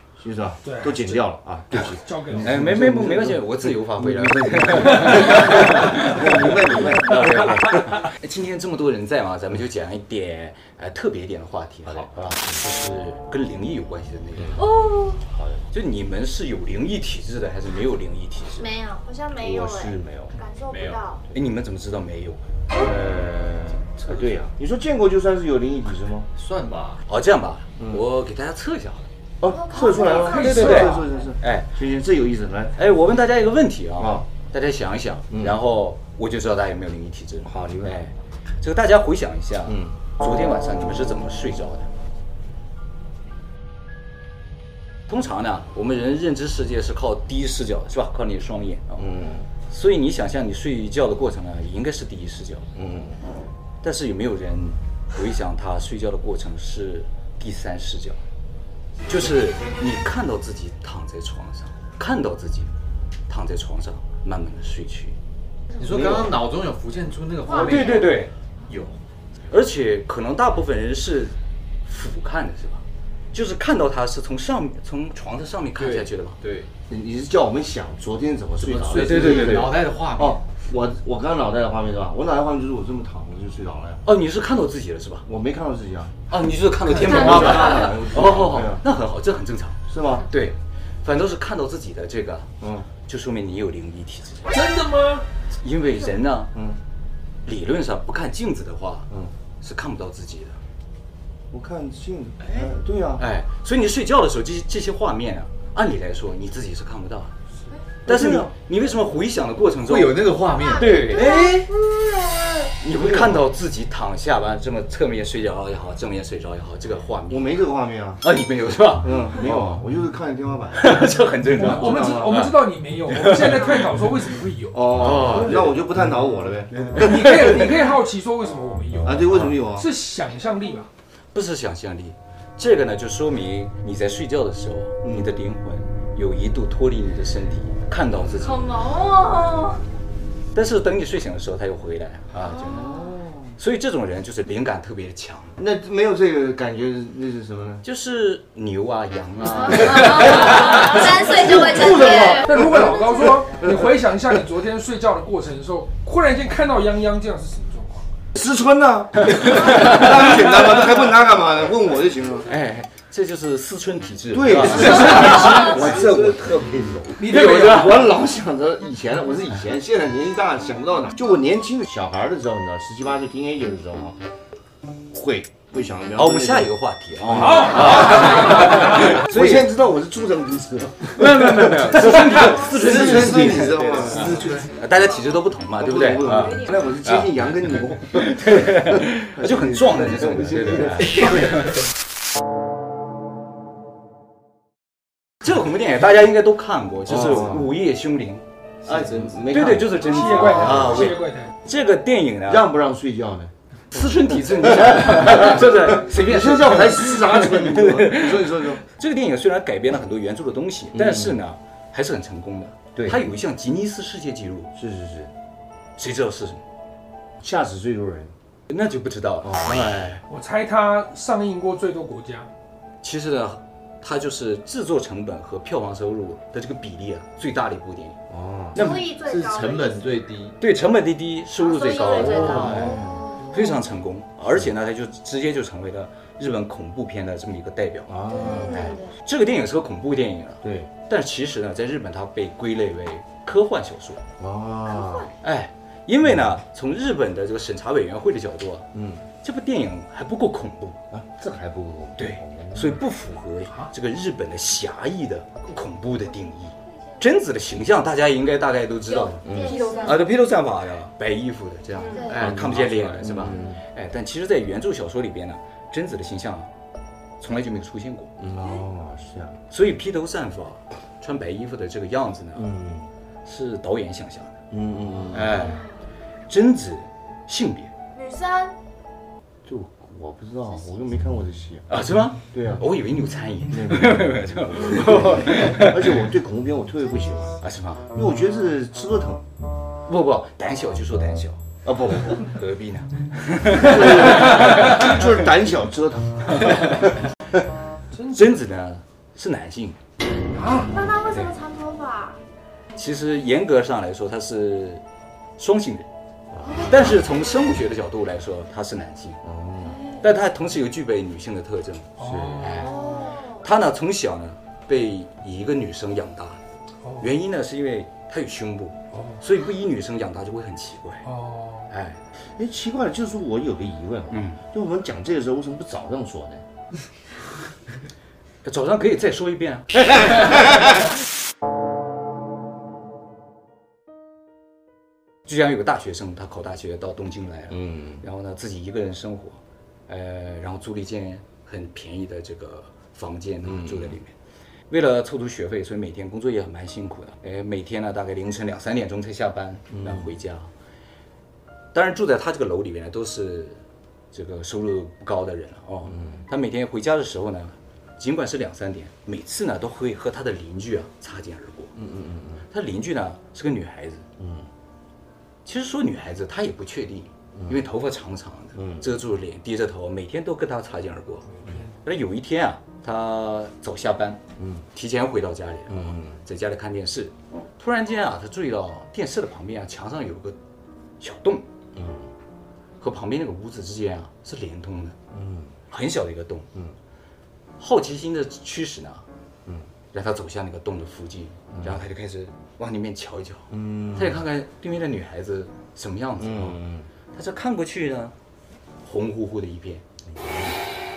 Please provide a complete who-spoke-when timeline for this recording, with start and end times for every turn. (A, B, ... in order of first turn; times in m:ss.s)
0:00.2-0:07.6 A
0:00.6-0:01.2 B
0:01.8-0:02.6 B
0:02.4-0:14.7 C
0:11.8-0:12.6 A
0:14.4-0:14.6 A
0:14.6-0:15.2 D
0:15.2-0:15.6 A
0:15.7-0:18.8 C
0:18.6-0:21.2 D
0:19.4-0:20.4 A
0:20.7-0:22.4 C
0:22.7-0:26.3 A
0:23.8-0:24.4 C
0:26.4-0:27.0 E
0:27.1-0:29.1 C
0:29.4-0:32.8 A
0:29.4-0:30.6 D
0:30.1-0:31.0 B
0:30.3-0:31.7 C
0:32.8-0:41.9 C
0:34.0-0:34.2 A
0:37.4-0:38.0 A
0:39.6-0:40.0 A
0:45.1-0:49.1 C
0:49.0-0:49.5 A
0:49.6-0:52.7 C
0:52.7-0:53.2 A
0:53.8-0:58.2 C
0:59.1-1:02.7 C
1:03.3-1:05.2 C
1:05.8-1:08.1 E
1:07.5-1:08.0 D
1:07.5-1:08.9 C
1:09.5-1:16.4 C
1:15.8-1:16.7 E
1:16.9-1:24.0 A
1:18.6-1:20.4 E
1:19.0-1:19.6 C
1:24.0-1:25.2 C
1:25.2-1:26.1 A
1:26.3-1:32.5 C
1:26.8-1:27.7 E
1:27.0-1:28.8 A
1:29.9-1:30.3 A
1:32.6-1:32.9 A
1:33.0-1:34.5 C
1:34.5-1:35.2 B
1:35.6-1:36.5 C
1:36.5-1:36.8 A
1:37.4-1:39.1 C
1:39.6-1:40.6 C
1:41.5-1:43.2 A
1:43.2-1:47.3 C
1:48.0-1:48.5 A
1:48.0-1:51.7 C
1:49.9-1:51.0 E
1:50.5-1:52.7 D
1:52.8-1:57.6 C
1:52.9-1:53.4 A
1:57.3-1:58.2 A
1:58.2-1:59.8 C
1:59.0-2:02.5 A
2:00.8-2:02.5 C
2:01.5-2:05.5 B
2:03.1-2:03.7 C
2:04.7-2:07.5 A
2:04.9-2:05.7 C
2:06.9-2:10.9 B
2:09.0-2:09.9 A
2:11.3-2:18.8 C
2:18.4-2:19.8 D
2:20.5-2:23.0 C
2:22.4-2:23.6 A
2:23.6-2:25.6 C
2:25.6-2:27.8 A
2:27.8-2:31.6 C
2:29.7-2:32.4 D
2:31.2-2:33.9 A
2:31.8-2:38.1 B
2:38.3-2:42.5 A
2:42.5-2:46.1 C
2:44.3-2:54.2 A
2:45.2-2:45.5 B
2:47.2-2:48.1 C
2:47.2-2:47.9 B
2:55.1-2:56.7 A
2:56.2-2:59.7 C
2:57.2-3:04.7 A
3:01.1-3:07.3 C
3:05.8-3:11.7 A
3:06.3-3:06.8 D
3:07.9-3:11.8 C
3:15.4-3:18.4 C
3:17.1-3:17.7 A
3:18.8-3:21.1 A
3:19.5-3:22.6 C
3:19.9-3:21.5 B
3:22.5-3:23.5 A
3:23.9-3:34.7 C
3:24.9-3:28.8 A
3:30.9-3:31.4 A
3:32.9-3:33.2 A
3:34.8-3:35.3 A
3:36.0-3:36.6 C
3:37.4-3:38.3 A
3:38.7-3:40.2 C
3:39.4-3:40.1 A
3:40.3-3:42.5 B
3:43.0-3:48.2 C
3:48.3-3:49.0 A
3:48.7-3:50.2 D
3:48.8-3:50.6 E
3:50.6-4:04.2 C
3:51.6-3:53.7 D
3:52.0-3:53.5 A
3:58.1-3:58.9 A
3:58.3-3:59.1 D
4:00.6-4:00.9 A
4:04.4-4:05.3 A
4:04.9-4:05.3 D
4:05.4-4:08.9 C
4:08.9-4:09.2 A
4:09.4-4:11.0 C
4:11.1-4:13.0 A
4:12.2-4:26.7 C
4:19.2-4:20.2 D
4:19.4-4:19.9 A
4:22.1-4:22.4 D
4:22.3-4:23.8 A
4:27.4-4:28.3 C
4:28.4-4:29.6 A
4:29.7-4:32.7 C
4:32.6-4:33.1 A
4:33.4-4:34.5 C
4:34.7-4:35.7 A
4:35.3-4:35.9 C
4:36.5-4:37.9 C
4:38.1-4:38.8 D
4:39.6-4:41.9 A
4:41.9-4:46.3 C
4:42.5-4:42.8 A
4:43.7-4:47.6 A
4:47.6-4:48.1 C
4:48.1-4:49.4 A
4:50.0-4:51.6 C
4:51.8-4:52.5 A
4:52.2-4:55.0 C
4:53.7-4:57.2 A
4:58.1-4:58.5 B
4:58.3-5:00.0 C
5:00.5-5:01.0 B
5:00.9-5:02.4 D
5:01.0-5:01.5 C
5:02.9-5:05.0 C
5:05.6-5:06.1 C
5:06.5-5:06.9 A
5:06.8-5:09.4 C
5:09.4-5:10.0 A
5:10.2-5:16.6 C
5:12.2-5:12.8 B
5:12.2-5:12.9 A
5:12.8-5:13.6 D
5:17.2-5:21.3 C
5:21.2-5:21.9 B
5:21.9-5:22.2 C
5:22.4-5:26.6 A
5:24.3-5:24.6 C
5:28.6-5:30.5 C
5:35.4-5:44.3 C
5:37.7-5:38.2 A
5:43.6-5:44.2 A
5:44.9-5:50.7 C
5:49.9-5:50.3 A
5:51.9-6:01.9 C
6:02.0-6:02.6 A
6:02.7-6:04.3 C
6:04.4-6:04.7 A
6:05.6-6:20.6 C
6:08.8-6:09.1 A
6:14.6-6:14.8 A
6:15.9-6:16.4 A
6:21.2-6:21.7 C
6:21.9-6:22.3 A
6:23.0-6:25.2 C
6:25.3-6:25.8 A
6:25.9-6:26.7 C
6:27.8-6:29.2 C
6:30.1-6:38.3 C
6:31.7-6:32.0 A
6:33.7-6:34.4 A
6:36.4-6:37.1 A
6:39.0-6:40.0 C
6:40.3-6:40.8 A